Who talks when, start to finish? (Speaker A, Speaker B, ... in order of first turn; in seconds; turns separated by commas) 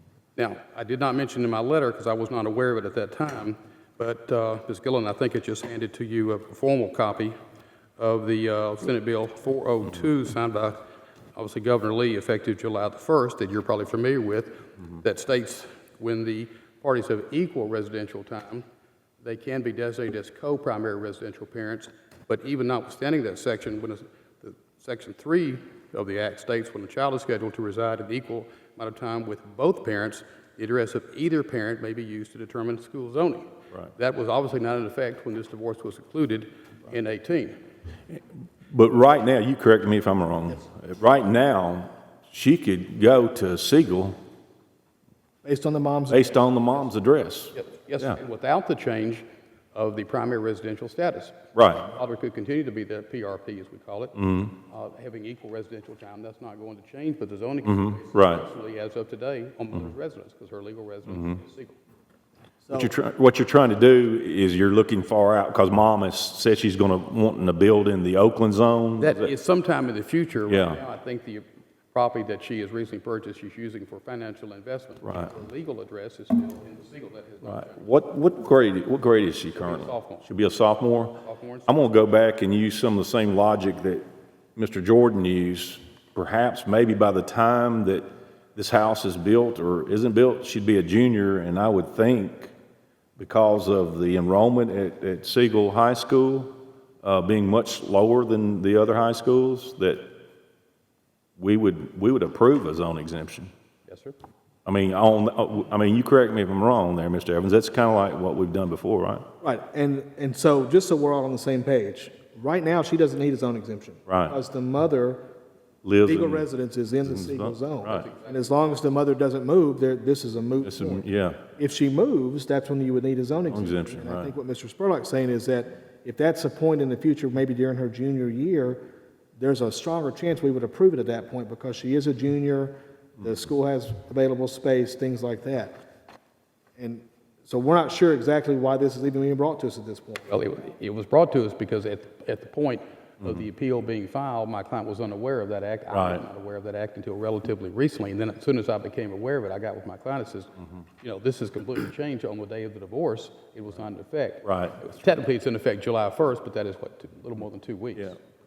Speaker A: 0.3-7.3, Speaker A: 8.0-10.8, Speaker A: 11.3-18.6, Speaker A: 19.2-37.6, Speaker B: 38.1-44.1, Speaker C: 45.4-46.3, Speaker B: 46.1-48.2, Speaker A: 47.5-61.8, Speaker B: 51.5-51.9, Speaker B: 54.1-54.5, Speaker B: 57.6-58.4, Speaker B: 61.1-61.4, Speaker C: 62.6-62.9, Speaker B: 62.7-69.3, Speaker A: 69.0-77.8, Speaker B: 70.5-70.8, Speaker B: 75.0-75.3, Speaker B: 77.5-84.0, Speaker A: 79.5-80.3, Speaker A: 81.2-81.7, Speaker B: 84.5-92.5, Speaker B: 93.2-96.5, Speaker B: 97.0-100.0, Speaker B: 101.4-103.5, Speaker A: 103.9-104.2, Speaker B: 104.6-109.2, Speaker C: 109.4-115.2, Speaker B: 114.1-114.4, Speaker B: 115.8-116.5, Speaker C: 116.0-121.0, Speaker B: 117.0-118.1, Speaker A: 117.8-118.6, Speaker B: 120.6-121.4, Speaker C: 121.6-128.8, Speaker B: 123.5-124.3, Speaker C: 129.4-135.8, Speaker C: 136.8-140.3, Speaker A: 140.3-158.2, Speaker B: 145.9-146.2, Speaker B: 154.4-154.8